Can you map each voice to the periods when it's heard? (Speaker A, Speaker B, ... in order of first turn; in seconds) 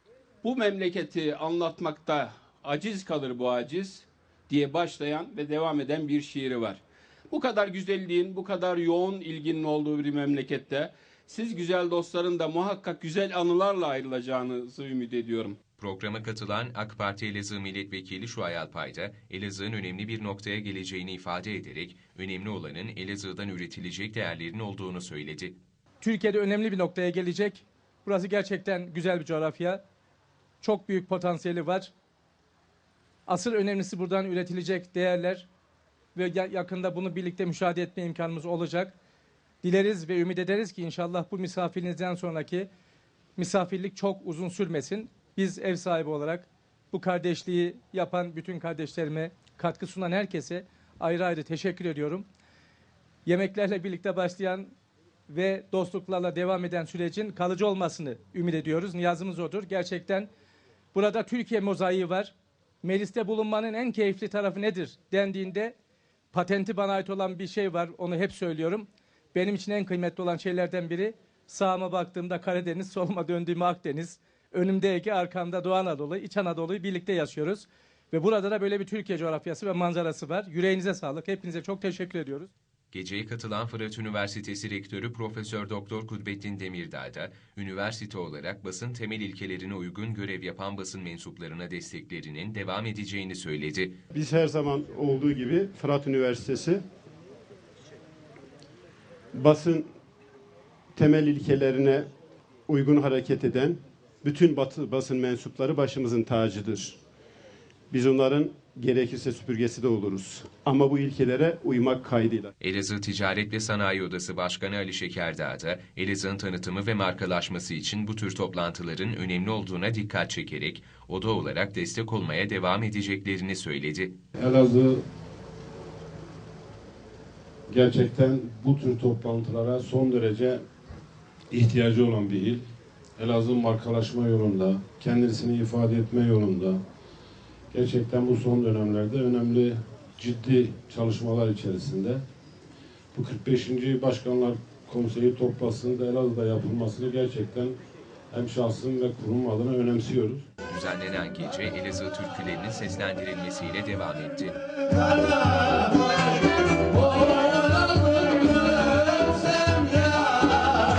Speaker A: 0.4-15.6
Speaker B: 15.8-25.6, 82.9-94.0, 112.6-124.2, 150.7-154.6
Speaker C: 26.0-29.8, 30.6-31.9, 33.3-35.5, 36.1-38.9, 39.6-42.7, 43.4-52.3, 53.3-54.7, 55.3-60.3, 60.9-65.7, 66.3-82.5
Speaker D: 94.1-96.8, 99.3-99.9, 100.9-102.1, 102.7-107.0, 107.9-112.5
Speaker E: 124.4-125.0, 127.7-130.6, 131.5-132.6, 133.2-136.8, 137.7-142.2, 143.1-147.8, 148.3-150.4